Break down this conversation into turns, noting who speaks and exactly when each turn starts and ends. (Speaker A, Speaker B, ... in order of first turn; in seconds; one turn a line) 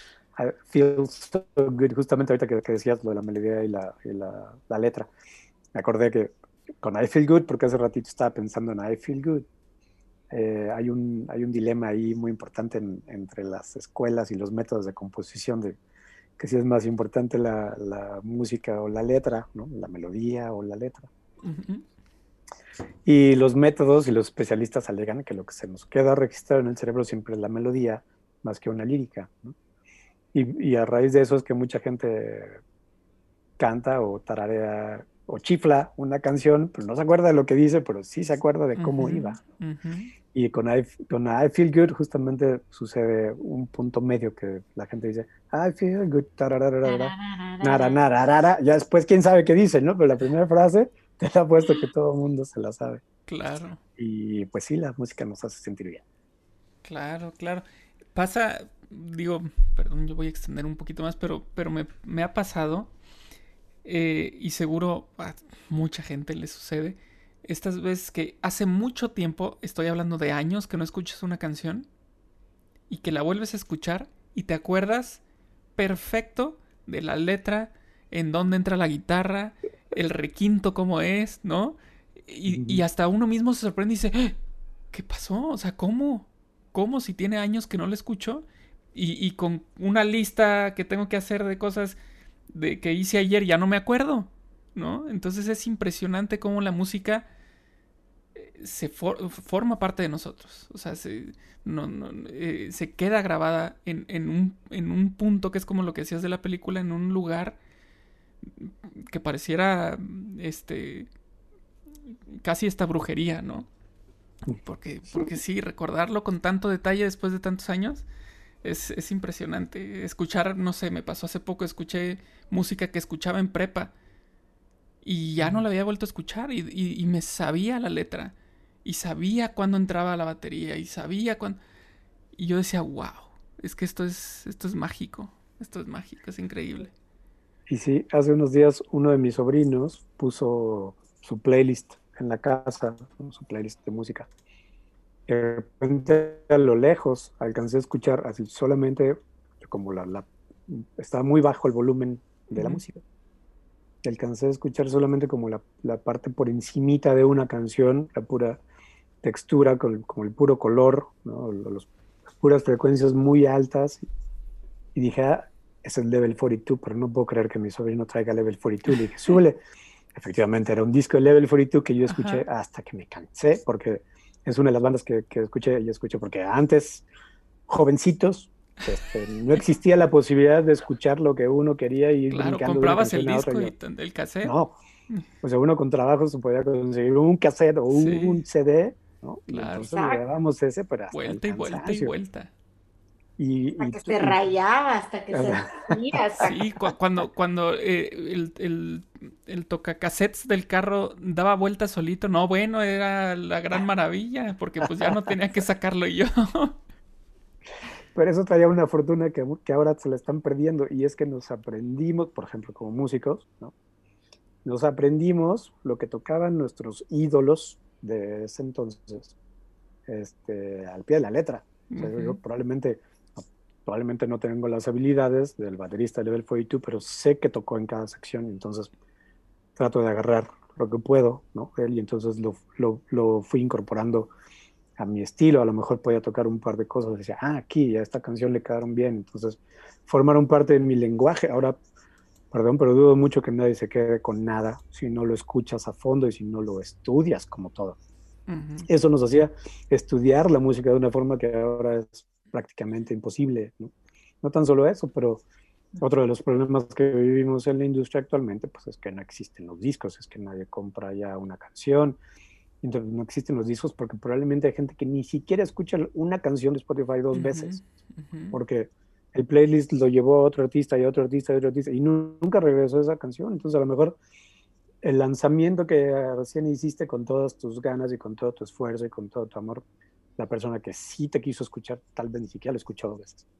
Speaker A: 0.3-5.1
Speaker A: 5.7-9.4
Speaker A: 10.3-15.8
Speaker A: 16.4-21.1
Speaker B: 21.4-21.8
Speaker A: 23.0-29.5
Speaker A: 30.3-32.6
Speaker A: 33.6-39.4
Speaker B: 38.8-40.1
Speaker A: 40.3-53.0
Speaker C: 46.8-48.0
Speaker B: 53.3-53.8
Speaker A: 54.0-56.0
Speaker B: 56.8-62.9
Speaker B: 63.8-71.9
Speaker B: 72.9-75.2
Speaker B: 75.8-84.3
Speaker A: 82.5-82.8
Speaker B: 84.9-92.0
Speaker B: 92.5-97.2
Speaker B: 98.3-107.6
Speaker B: 108.4-111.1
Speaker B: 112.3-113.7
Speaker B: 114.6-118.0
Speaker B: 118.6-123.9
Speaker B: 125.0-131.6
Speaker A: 125.4-125.6
Speaker B: 132.3-136.9
Speaker A: 137.7-144.3
Speaker A: 145.3-153.0
Speaker B: 152.5-152.8
Speaker A: 154.0-158.6
Speaker A: 159.2-161.9
Speaker A: 162.4-164.0
Speaker A: 164.9-169.6
Speaker A: 170.1-177.1
Speaker B: 172.1-172.4
Speaker A: 177.7-183.7
Speaker B: 182.3-184.5
Speaker A: 184.4-184.7
Speaker A: 185.4-192.1
Speaker B: 187.9-188.4
Speaker B: 189.5-189.9
Speaker C: 189.8-190.2
Speaker B: 191.1-192.5
Speaker A: 193.4-194.4
Speaker C: 193.8-196.5
Speaker A: 195.3-196.5
Speaker B: 196.4-206.8
Speaker A: 204.8-205.1
Speaker A: 208.1-213.7
Speaker A: 214.6-219.3
Speaker A: 220.1-228.9
Speaker B: 221.9-222.4
Speaker A: 229.8-234.3
Speaker A: 235.0-241.8
Speaker A: 242.5-248.0
Speaker B: 248.5-248.9
Speaker A: 248.9-255.4
Speaker A: 256.0-262.2
Speaker A: 262.8-267.8
Speaker B: 267.3-268.6
Speaker A: 268.5-274.2
Speaker A: 275.0-279.8
Speaker A: 280.4-283.4